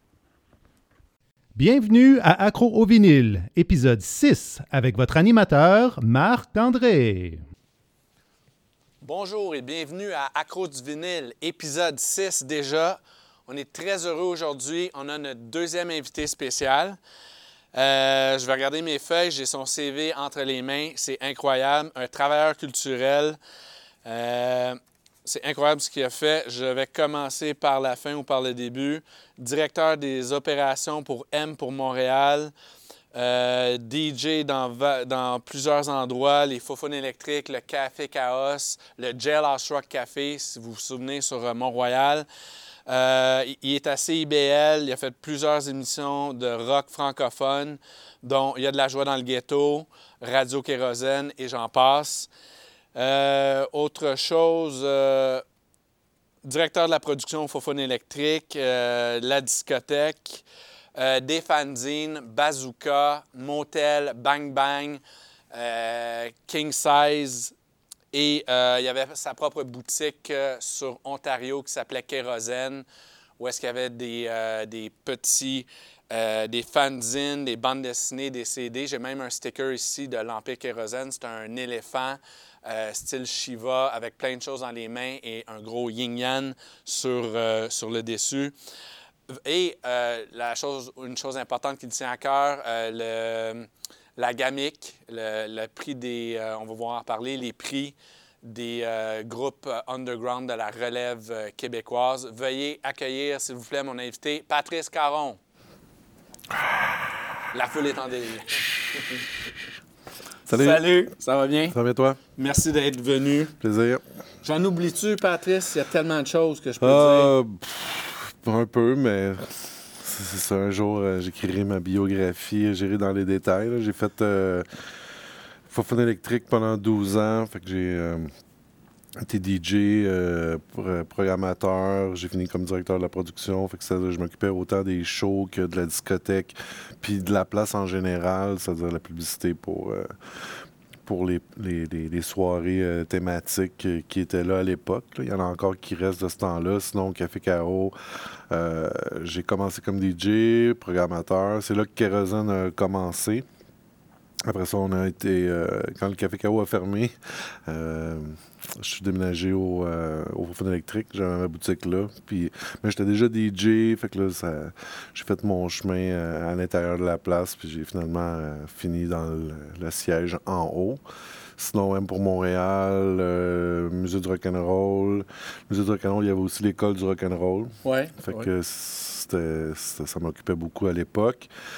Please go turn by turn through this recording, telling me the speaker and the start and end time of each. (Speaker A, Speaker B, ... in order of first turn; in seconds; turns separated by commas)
Speaker A: 1.6-7.4, Speaker B: 9.0-17.0, Speaker B: 17.7-23.4, Speaker B: 24.1-32.5, Speaker B: 33.1-42.3, Speaker B: 42.9-52.3, Speaker B: 53.0-55.4, Speaker B: 56.4-60.4, Speaker B: 61.0-65.0, Speaker B: 65.5-67.5, Speaker B: 68.1-72.8, Speaker B: 73.4-88.5, Speaker B: 89.3-105.4, Speaker B: 107.5-109.3, Speaker B: 110.5-111.8, Speaker C: 110.5-110.9, Speaker C: 111.7-112.2, Speaker B: 112.4-113.6, Speaker C: 113.6-114.0, Speaker B: 114.4-117.3, Speaker C: 116.8-124.9, Speaker C: 125.7-128.3, Speaker C: 129.2-140.1, Speaker C: 141.1-147.9, Speaker C: 148.5-153.5, Speaker C: 154.5-171.0, Speaker C: 171.6-181.5, Speaker B: 177.8-178.5